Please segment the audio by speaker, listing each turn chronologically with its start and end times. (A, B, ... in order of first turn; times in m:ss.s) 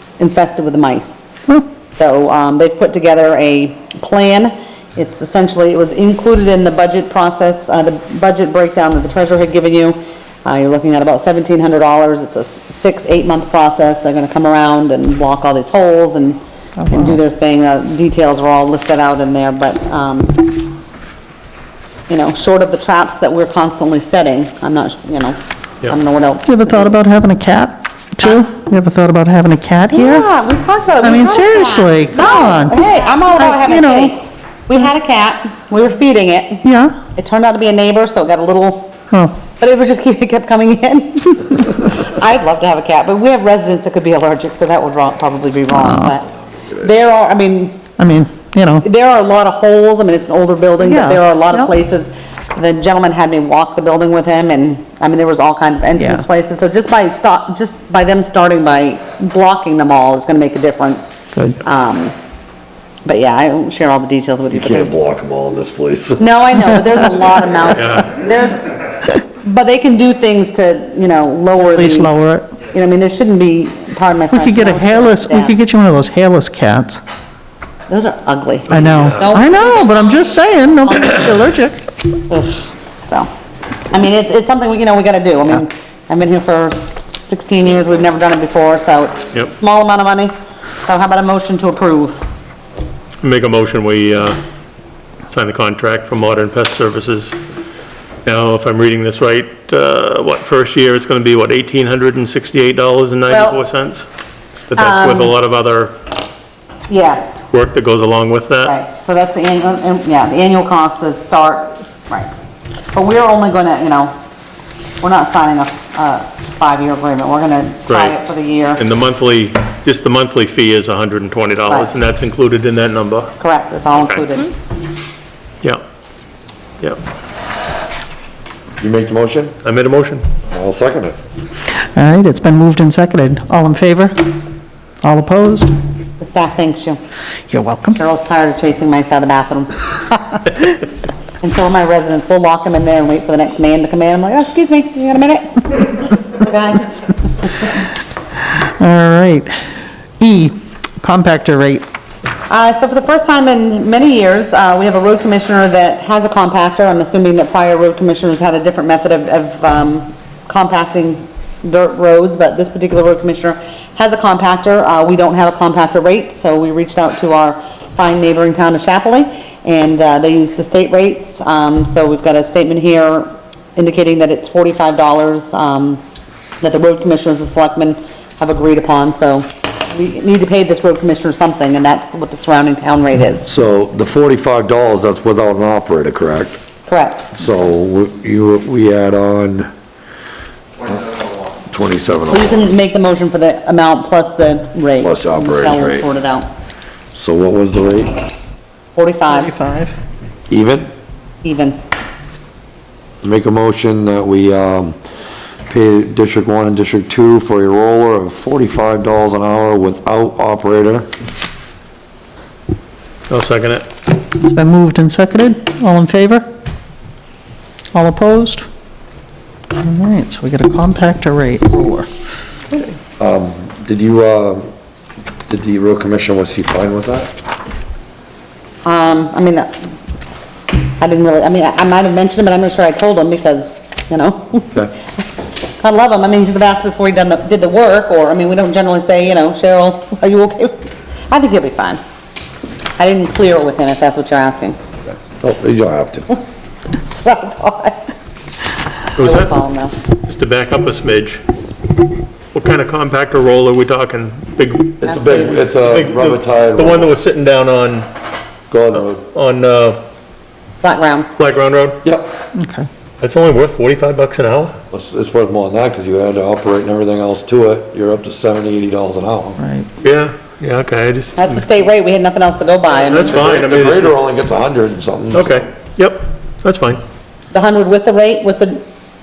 0:00.2-0:01.2 A
0:02.0-0:20.6 A
0:16.8-0:17.2 B
0:22.1-0:27.0 A
0:26.4-0:30.3 B
0:29.9-0:38.9 A
0:31.0-0:32.8 B
0:33.4-0:34.1 B
0:36.6-0:37.0 B
0:39.1-0:39.4 B
0:39.5-0:47.9 A
0:45.8-0:46.1 B
0:48.0-0:48.9 B
0:48.8-1:02.1 A
0:50.8-0:51.7 B
0:56.0-0:56.2 B
1:01.3-1:01.6 B
1:03.1-1:05.0 A
1:04.5-1:06.3 C
1:06.2-1:12.1 A
1:07.7-1:08.1 D
1:11.6-1:12.6 B
1:12.6-1:15.6 A
1:14.3-1:17.0 B
1:17.9-1:20.0 A
1:18.7-1:21.8 B
1:18.7-1:19.4 D
1:22.2-1:23.3 A
1:23.9-1:30.3 A
1:30.8-1:32.2 A
1:33.2-1:34.4 D
1:35.3-1:37.4 D
1:38.2-1:44.1 D
1:43.3-1:43.6 A
1:44.7-1:46.0 D
1:44.8-1:45.3 A
1:46.9-1:47.5 A
1:47.5-1:48.8 D
1:48.6-1:52.3 A
1:52.9-1:54.1 A
1:55.0-1:58.8 A
1:57.9-1:58.2 D
1:58.8-2:03.3 D
2:01.7-2:01.9 A
2:03.4-2:04.5 A
2:03.9-2:04.2 D
2:08.8-2:09.6 C
2:09.6-2:10.2 D
2:10.5-2:11.2 C
2:11.8-2:14.3 B
2:15.0-2:15.7 B
2:16.2-2:17.0 A
2:17.5-2:18.0 B
2:18.0-2:20.7 A
2:21.4-2:27.5 A
2:28.5-2:29.6 B
2:30.2-2:31.8 B
2:32.5-2:56.0 A
2:56.6-3:03.5 A
3:03.4-3:06.6 C
3:06.9-3:07.4 A
3:07.4-3:09.7 C
3:11.7-3:12.7 C
3:12.3-3:16.5 A
3:15.0-3:16.1 C
3:17.1-3:18.2 C
3:19.0-3:19.5 A
3:19.3-3:19.9 B
3:20.5-3:20.9 C
3:21.4-3:21.8 A
3:23.2-3:25.0 C
3:25.7-3:31.1 C
3:33.3-3:33.9 D
3:34.4-3:36.5 B
3:37.9-3:38.7 B
3:39.8-3:42.1 B
3:43.2-3:44.7 C
3:45.5-3:47.3 C
3:48.8-3:49.7 A
3:51.0-3:54.7 A
3:55.8-4:02.0 A
4:03.0-4:04.8 A
4:05.4-4:06.3 C
4:07.0-4:08.2 A
4:09.2-4:09.5 D
4:09.2-4:10.0 A
4:10.2-4:11.4 D
4:12.5-4:18.1 D
4:15.0-4:17.2 C
4:15.0-4:15.6 A
4:18.7-4:19.2 C
4:19.0-4:20.0 D
4:20.8-4:21.3 A
4:21.4-4:22.0 D
4:22.0-4:22.3 C
4:22.6-4:22.9 B
4:23.2-4:24.8 D
4:24.9-4:29.6 C
4:29.6-4:29.9 B
4:30.0-4:31.8 D
4:31.4-4:33.5 A
4:33.0-4:34.2 D
4:33.3-4:35.7 C
4:35.3-4:37.0 D
4:37.5-4:38.8 A